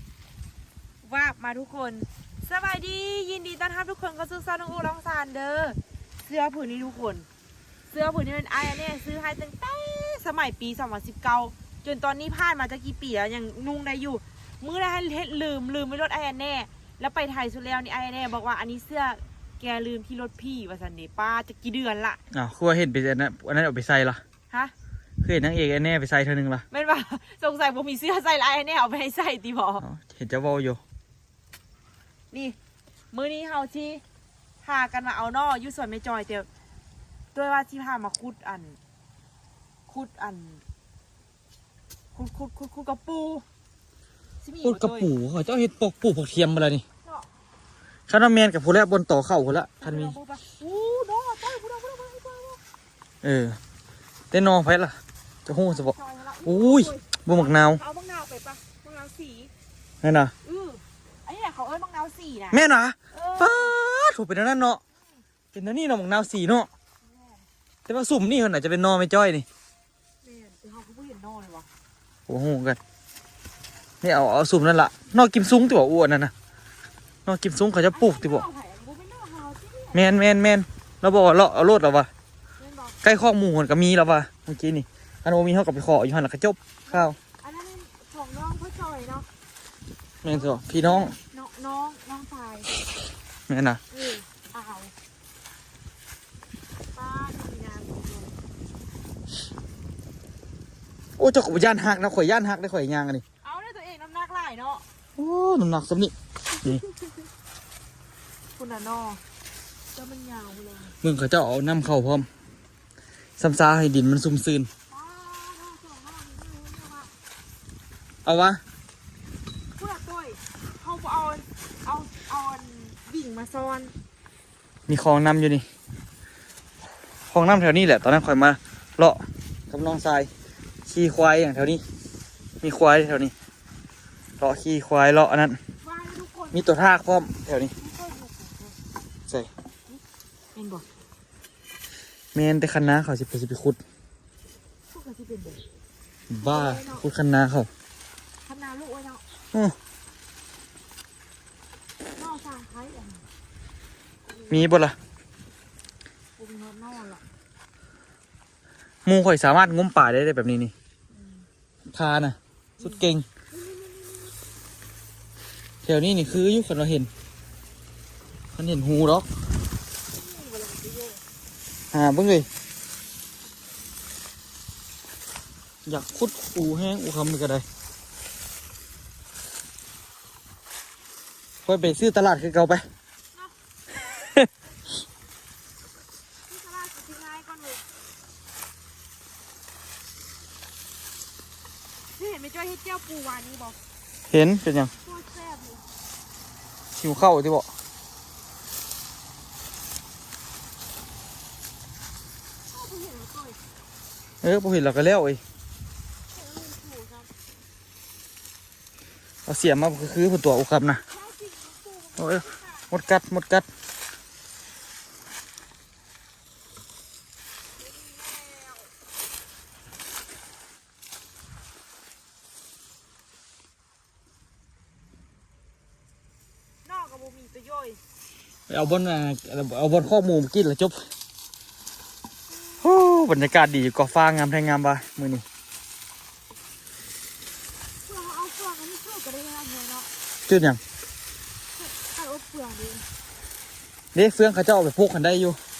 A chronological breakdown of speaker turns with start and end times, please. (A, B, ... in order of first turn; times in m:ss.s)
0:01.0-0:07.3 A
0:07.9-0:22.2 A
0:22.3-0:24.2 B
0:25.2-0:26.6 B
0:26.7-0:29.8 A
0:29.8-0:30.8 B
0:32.3-0:32.6 A
0:33.1-0:34.0 A
0:34.6-0:36.5 A
0:37.3-0:38.8 A
0:39.9-0:40.6 A
0:42.1-0:43.4 A
0:44.4-0:45.1 A
0:44.6-0:46.8 B
0:48.1-0:50.1 B
0:49.8-0:52.6 A
0:53.2-0:53.6 B
0:54.3-0:57.8 B
0:55.6-0:59.5 A
1:00.0-1:00.3 B
1:00.4-1:02.6 A
1:02.5-1:04.8 B
1:03.1-1:03.8 A
1:05.5-1:06.7 B
1:07.0-1:07.4 A
1:07.9-1:09.4 B
1:10.2-1:11.7 A
1:12.3-1:12.8 B
1:14.0-1:16.3 B
1:17.2-1:18.4 B
1:17.9-1:20.1 A
1:19.9-1:22.1 B
1:22.6-1:23.0 A
1:23.0-1:27.2 B
1:26.9-1:29.3 A
1:30.2-1:31.2 B
1:30.3-1:32.7 A
1:33.5-1:33.8 B
1:33.9-1:34.9 A
1:36.9-1:38.3 A
1:41.2-1:43.2 B
1:43.4-1:44.8 A
1:45.2-1:46.8 B
1:48.6-1:49.2 A
1:49.9-1:51.0 A
1:51.0-1:52.3 B
1:53.4-1:54.7 B
1:54.9-1:57.2 A
1:58.2-1:58.6 B
1:59.8-2:03.9 A
2:04.9-2:05.7 B
2:07.3-2:10.3 B
2:10.8-2:11.8 B
2:12.6-2:13.3 B
2:14.4-2:15.6 B
2:15.8-2:16.6 A
2:16.5-2:17.7 B
2:17.8-2:18.8 A
2:20.5-2:20.8 A
2:22.3-2:23.8 B
2:24.9-2:25.6 A
2:26.3-2:27.7 B
2:26.4-2:27.0 A
2:28.4-2:29.2 A
2:32.2-2:33.2 A
2:34.2-2:34.8 A
2:34.5-2:35.0 B
2:36.4-2:37.2 A
2:39.0-2:40.7 B
2:41.1-2:41.5 A
2:41.9-2:43.2 B
2:42.8-2:44.3 A
2:45.8-2:47.1 B
2:48.5-2:49.3 B
2:50.1-2:51.2 A
2:51.9-2:52.5 B
2:55.8-2:57.6 B
3:01.6-3:02.9 B
3:04.2-3:04.5 B
3:06.5-3:07.8 A
3:12.2-3:13.8 A
3:14.3-3:14.9 B
3:15.0-3:15.9 A
3:17.0-3:17.7 B
3:22.7-3:23.6 A
3:24.4-3:25.4 B
3:26.3-3:27.3 A
3:29.4-3:31.0 B
3:31.1-3:32.9 A
3:32.2-3:33.7 B
3:37.8-3:38.9 A
3:46.8-3:48.0 A
3:48.7-3:51.0 B
3:52.8-3:55.4 B
3:58.0-4:00.1 A
4:00.5-4:00.8 B
4:01.7-4:03.0 A
4:04.1-4:05.6 B